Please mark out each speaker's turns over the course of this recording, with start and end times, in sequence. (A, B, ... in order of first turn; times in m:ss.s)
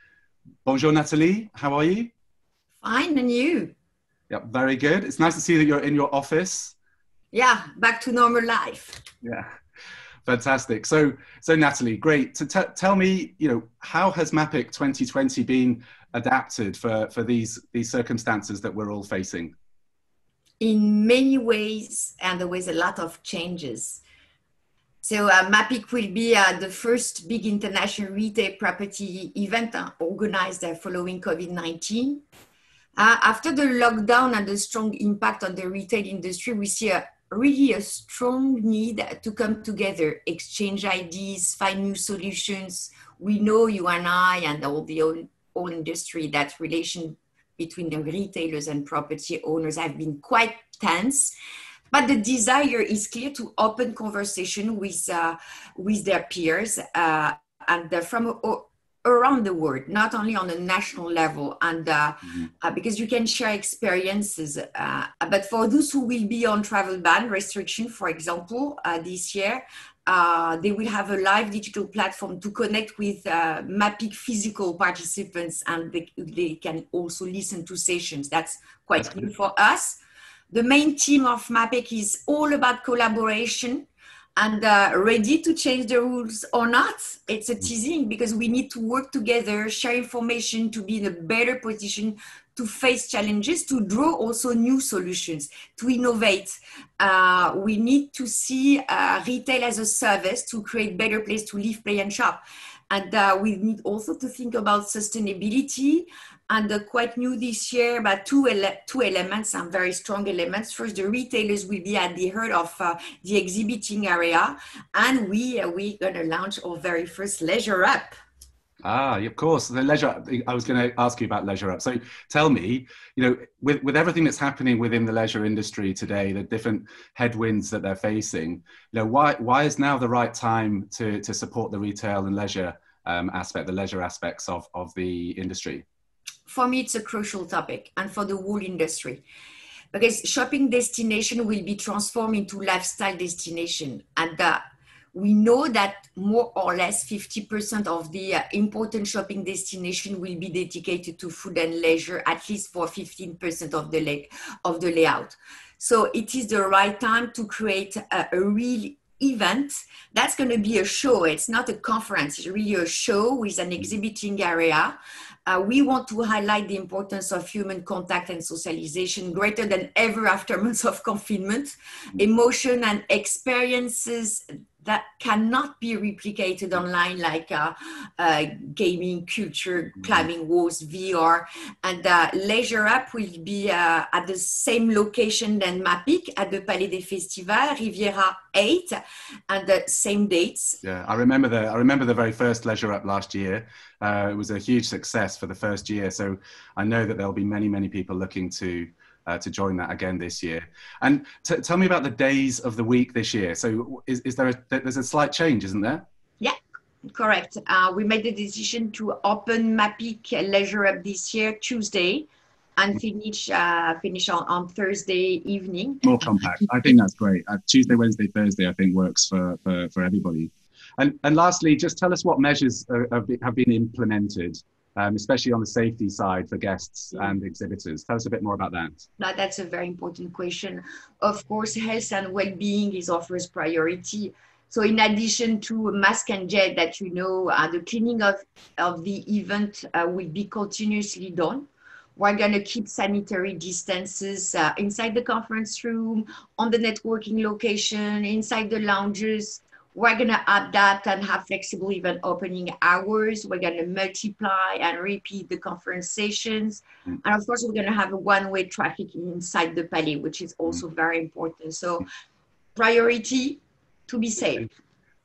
0:00.6-0:02.1 A
0:02.8-0:03.7 B
0:04.3-0:06.7 A
0:07.3-0:09.0 B
0:10.3-0:19.5 A
0:20.6-0:24.0 B
0:25.0-0:32.2 B
0:33.0-0:51.3 B
0:51.9-1:20.0 B
1:20.5-1:58.1 B
1:58.8-2:15.8 A
2:16.5-2:19.2 B
2:19.9-2:24.6 B
2:25.1-3:09.0 B
3:09.5-3:10.8 B
3:10.8-3:26.0 A
3:27.1-3:36.1 B
3:36.0-3:49.0 A
3:49.2-4:22.0 B
4:22.8-4:24.7 B